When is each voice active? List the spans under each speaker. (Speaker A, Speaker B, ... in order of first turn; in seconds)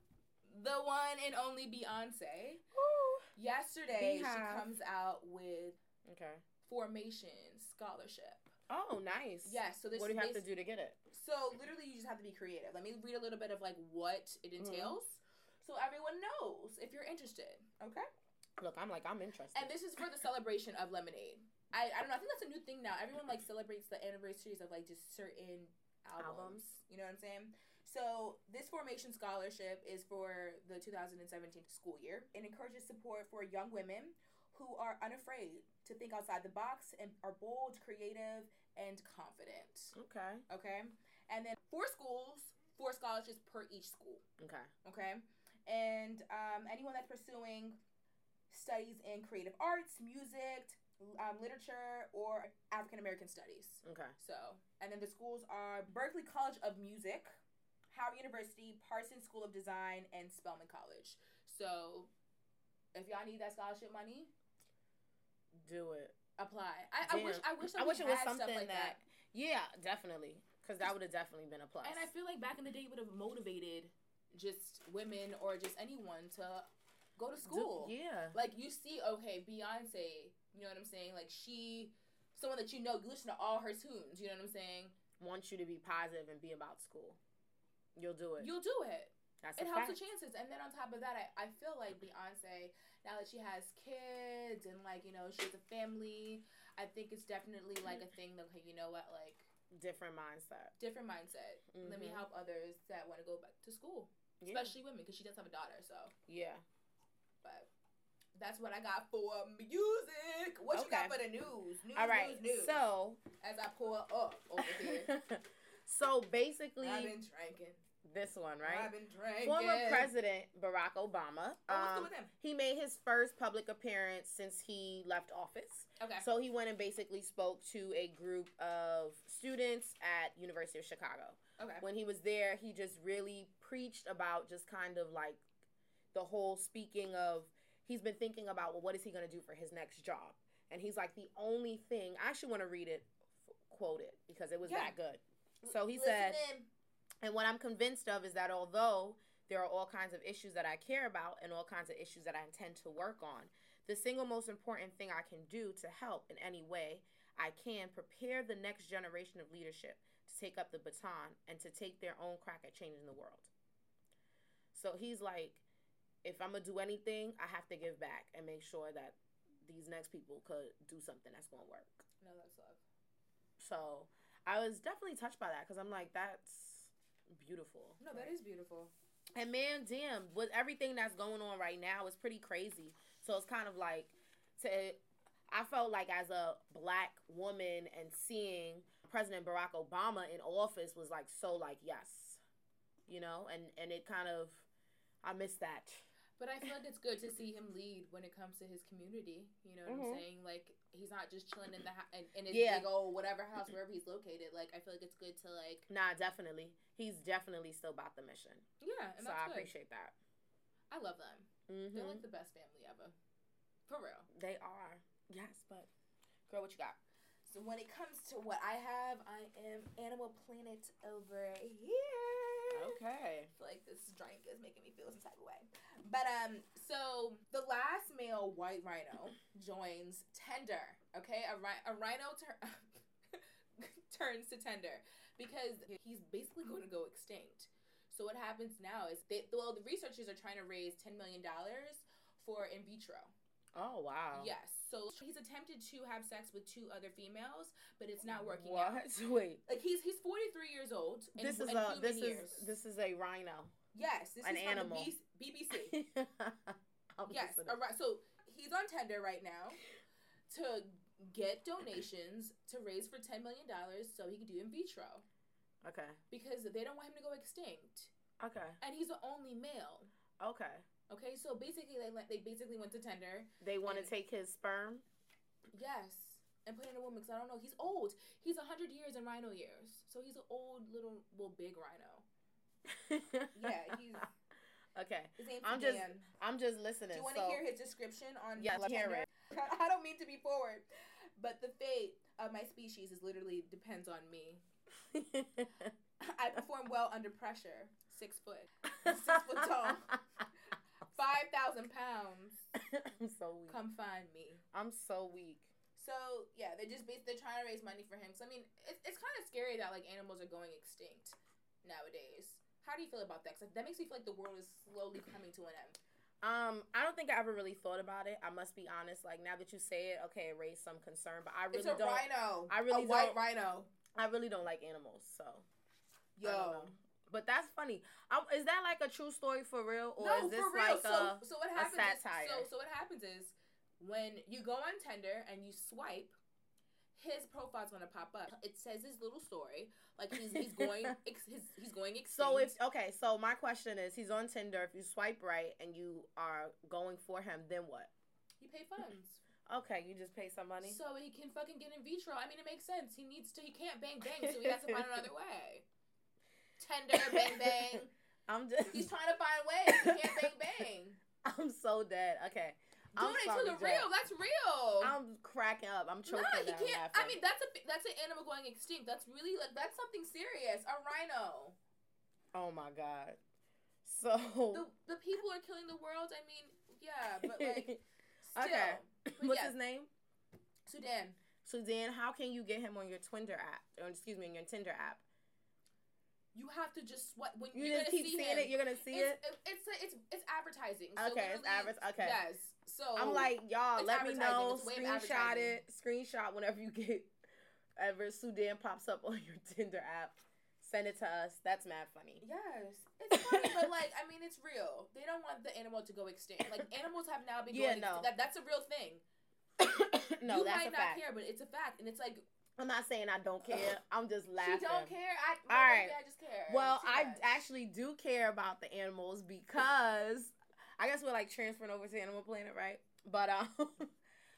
Speaker A: 0.5-2.6, 3.4-5.8, 6.7-8.5, 9.4-10.4, 11.1-18.1, 19.5-40.0, 40.5-44.2, 44.8-47.8, 48.5-57.4, 57.9-62.1, 63.0-64.3, 66.4-69.0, 71.8-85.0, 88.4-99.5, 100.8-106.1, 107.4-107.7, 108.3-112.8, 113.4-115.1, 116.8-117.8, 118.6-120.1, 121.7-122.3, 126.0-126.3, 131.6-131.8, 144.6-144.9, 145.6-146.7, 172.2-172.8, 178.0-178.9, 196.4-205.9, 208.8-209.7, 210.9-213.2, 213.9-214.3, 217.4-223.0, 223.6-243.3, 244.3-249.0, 249.7-252.7, 253.9-256.0, 257.3-259.8, 260.5-265.2, 266.3-268.1, 268.8-270.1, 271.1-274.1, 275.7-282.3, 283.5-284.3, 285.4-286.3, 287.1-290.9, 291.4-294.6, 296.2-300.1, 301.1-302.7, 303.7-304.6, 306.0-316.0, 321.7-323.9, 326.4-327.0, 330.2-336.4, 337.1-342.8, 348.6-349.4, 350.8-355.9, 356.8-358.1, 358.9-361.2, 363.1-365.2, 366.3-371.8, 374.7-377.9, 378.5-379.7, 380.9-381.4, 386.5-395.8, 402.4-409.2, 410.4-412.4, 414.6-417.6
Speaker B: 2.7-3.3, 3.9-4.7, 6.0-6.4, 8.7-11.0, 14.6-15.0, 18.6-19.7, 26.2-26.8, 40.0-40.5, 44.4-44.7, 53.8-54.1, 65.6-66.2, 67.0-72.1, 77.4-78.4, 85.2-87.2, 88.0-88.5, 89.4-90.0, 99.7-100.7, 101.7-102.2, 104.4-104.7, 106.3-106.6, 110.7-111.2, 112.0-113.2, 114.6-117.2, 118.0-118.9, 119.4-135.4, 136.1-143.1, 143.7-146.4, 147.2-163.5, 164.7-165.6, 166.2-172.0, 173.6-178.3, 179.4-192.4, 193.1-194.7, 195.2-196.0, 199.9-200.2, 202.5-202.9, 205.9-208.6, 209.2-210.2, 211.7-212.2, 214.3-215.9, 216.5-217.0, 222.7-223.5, 243.8-244.5, 248.3-249.6, 251.4-253.7, 254.4-255.1, 255.7-257.8, 265.8-266.2, 268.4-268.8, 270.4-270.9, 273.6-275.0, 282.9-284.0, 284.9-287.6, 288.6-289.3, 295.1-295.9, 299.0-300.2, 302.8-303.8, 304.7-305.7, 316.4-323.4, 324.1-325.7, 326.4-332.7, 340.3-341.1, 342.3-348.1, 349.7-351.0, 354.2-355.2, 357.1-359.1, 359.9-360.5, 361.4-364.1, 365.0-367.4, 372.5-373.4, 374.0-374.9, 377.4-378.0, 378.6-380.1, 381.6-385.2, 387.7-389.4, 391.2-392.4, 393.2-397.3, 398.0-402.4, 403.3-403.9, 407.7-408.3, 409.8-411.2, 412.8-415.1, 415.7-416.2, 416.7-424.1